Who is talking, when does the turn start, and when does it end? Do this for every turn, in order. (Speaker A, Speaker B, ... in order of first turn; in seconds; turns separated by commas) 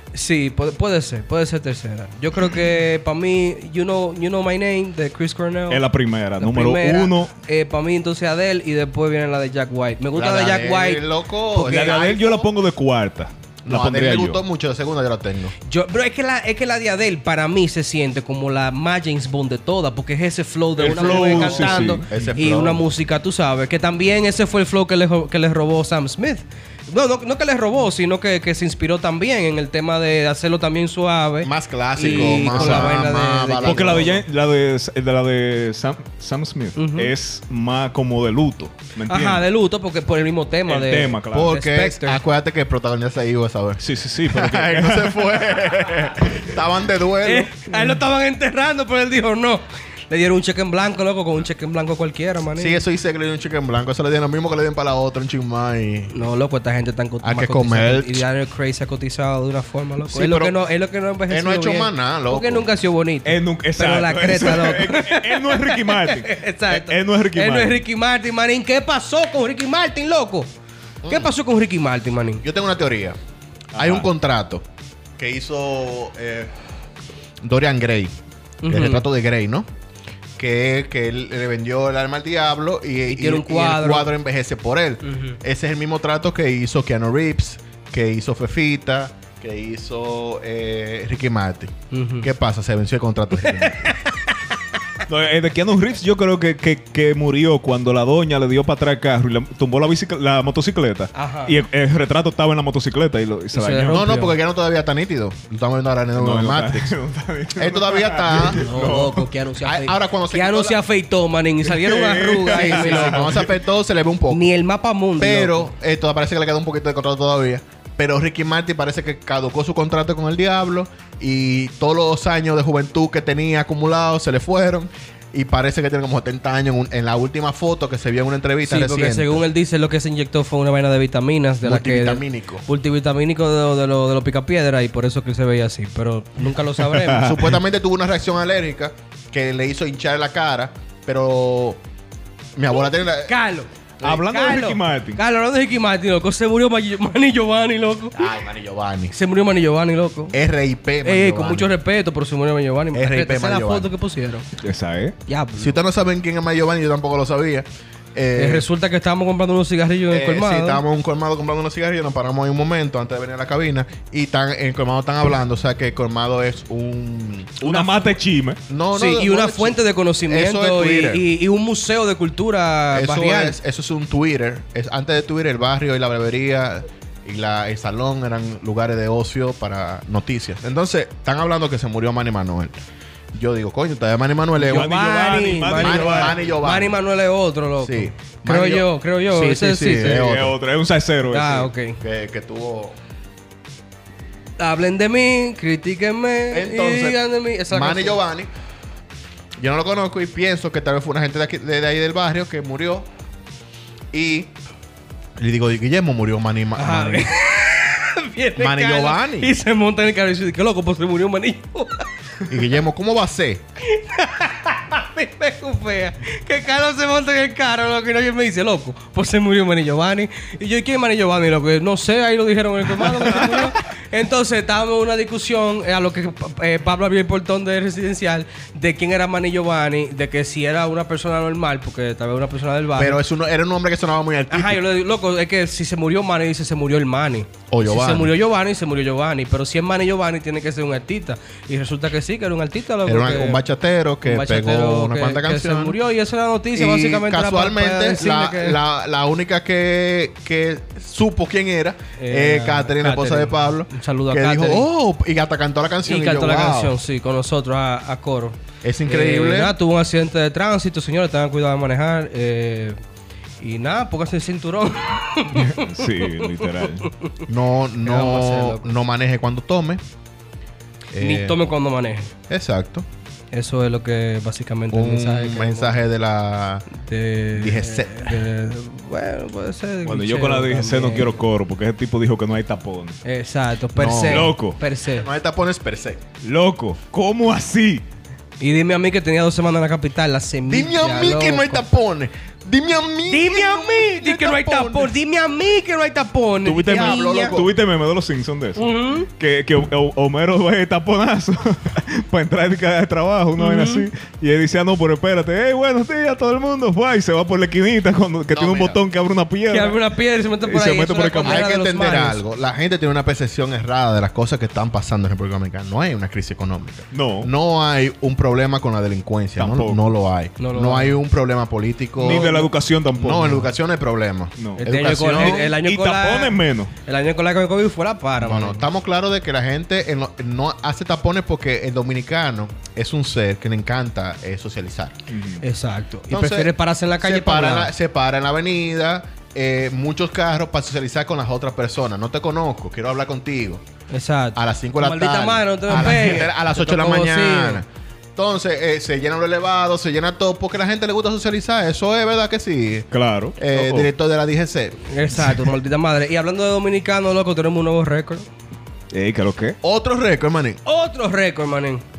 Speaker A: 0.1-5.8, Speaker B: 5.7-7.3, Speaker A: 6.4-12.5, Speaker C: 10.1-12.2, Speaker B: 11.6-14.4, Speaker C: 13.6-15.5, Speaker A: 15.7-34.2, Speaker B: 20.8-22.0, Speaker C: 20.9-22.8, Speaker C: 31.4-34.1, Speaker B: 32.1-33.0, Speaker B: 33.6-39.4, Speaker A: 36.8-37.1, Speaker A: 39.1-42.2, Speaker B: 40.7-41.5, Speaker C: 41.3-47.5, Speaker B: 43.8-45.6, Speaker A: 47.2-52.8, Speaker C: 52.6-56.1, Speaker A: 56.1-70.5, Speaker C: 57.2-58.2, Speaker C: 60.1-60.5, Speaker C: 61.3-62.6, Speaker B: 63.2-67.8, Speaker C: 71.0-71.3, Speaker A: 71.1-72.4, Speaker C: 72.4-73.2, Speaker B: 73.7-74.1, Speaker C: 73.7-74.6, Speaker C: 75.2-76.5, Speaker C: 77.4-78.1, Speaker A: 78.6-79.0, Speaker C: 78.7-79.7, Speaker C: 80.4-94.0, Speaker A: 83.1-84.1, Speaker A: 85.0-85.4, Speaker A: 91.9-92.3, Speaker A: 93.5-94.2, Speaker B: 95.0-104.3, Speaker A: 101.1-101.6, Speaker A: 103.5-104.3, Speaker C: 103.9-106.9, Speaker B: 106.2-109.3, Speaker C: 107.6-108.7, Speaker A: 108.4-113.4, Speaker C: 109.6-110.8, Speaker B: 111.6-113.5, Speaker C: 112.5-114.5, Speaker A: 114.3-115.7, Speaker C: 115.2-129.4, Speaker A: 128.6-137.3, Speaker C: 131.6-132.7, Speaker B: 136.8-137.5, Speaker C: 137.1-141.8, Speaker C: 142.6-143.3, Speaker A: 143.2-148.3, Speaker B: 144.0-145.2, Speaker C: 148.1-149.1, Speaker A: 149.1-150.4, Speaker C: 150.3-151.7, Speaker A: 151.0-154.5, Speaker C: 152.9-153.9, Speaker B: 154.6-155.2, Speaker A: 155.3-155.8, Speaker C: 155.6-158.7, Speaker A: 158.3-160.8, Speaker C: 160.1-167.7, Speaker B: 167.6-168.6, Speaker A: 167.6-168.1, Speaker C: 168.7-171.2, Speaker A: 168.9-173.6, Speaker C: 172.9-182.8, Speaker C: 183.3-184.9, Speaker A: 184.6-190.3, Speaker B: 184.7-186.5, Speaker C: 185.8-187.0, Speaker C: 187.8-190.6, Speaker B: 190.0-191.7, Speaker A: 191.3-192.0, Speaker C: 192.0-192.9, Speaker A: 194.6-198.2, Speaker C: 196.5-198.5, Speaker C: 199.6-203.1, Speaker C: 204.1-204.5, Speaker C: 205.4-207.3, Speaker A: 206.8-212.1, Speaker C: 208.6-209.5, Speaker C: 212.5-213.6, Speaker A: 213.8-233.2, Speaker C: 232.9-234.8, Speaker A: 234.5-243.6, Speaker C: 237.7-238.3, Speaker C: 243.0-246.0, Speaker A: 244.2-248.8, Speaker C: 246.7-257.0, Speaker A: 252.2-254.9, Speaker A: 256.1-263.0, Speaker C: 258.8-259.7, Speaker A: 263.6-267.2, Speaker B: 265.5-267.1, Speaker C: 267.5-270.0, Speaker A: 268.0-268.9, Speaker C: 271.1-271.6, Speaker A: 271.2-272.3, Speaker C: 272.5-273.1, Speaker A: 273.5-276.0, Speaker C: 274.9-276.9, Speaker A: 276.9-281.4, Speaker C: 277.5-278.4, Speaker B: 280.0-283.2, Speaker A: 283.2-285.3, Speaker C: 283.9-286.2, Speaker B: 284.2-284.8, Speaker B: 286.4-288.0, Speaker A: 288.6-291.8, Speaker C: 290.7-295.1, Speaker A: 293.3-297.6, Speaker C: 296.6-297.7, Speaker B: 296.7-310.0, Speaker A: 298.8-299.3, Speaker A: 303.6-304.1, Speaker C: 308.5-309.0, Speaker A: 309.7-312.4, Speaker B: 310.6-311.6, Speaker C: 311.4-322.5, Speaker B: 317.1-317.5, Speaker B: 319.6-320.1, Speaker A: 320.6-321.2, Speaker B: 322.2-323.7, Speaker A: 322.2-322.7, Speaker C: 323.1-325.7, Speaker B: 324.6-326.9, Speaker A: 324.8-328.8, Speaker C: 328.4-335.2, Speaker B: 335.3-335.6, Speaker A: 335.6-337.9, Speaker C: 336.3-343.8, Speaker A: 344.1-347.8, Speaker C: 344.5-355.0, Speaker B: 353.1-354.1, Speaker A: 355.1-358.5, Speaker B: 359.1-359.8, Speaker C: 359.8-360.8, Speaker A: 360.8-362.0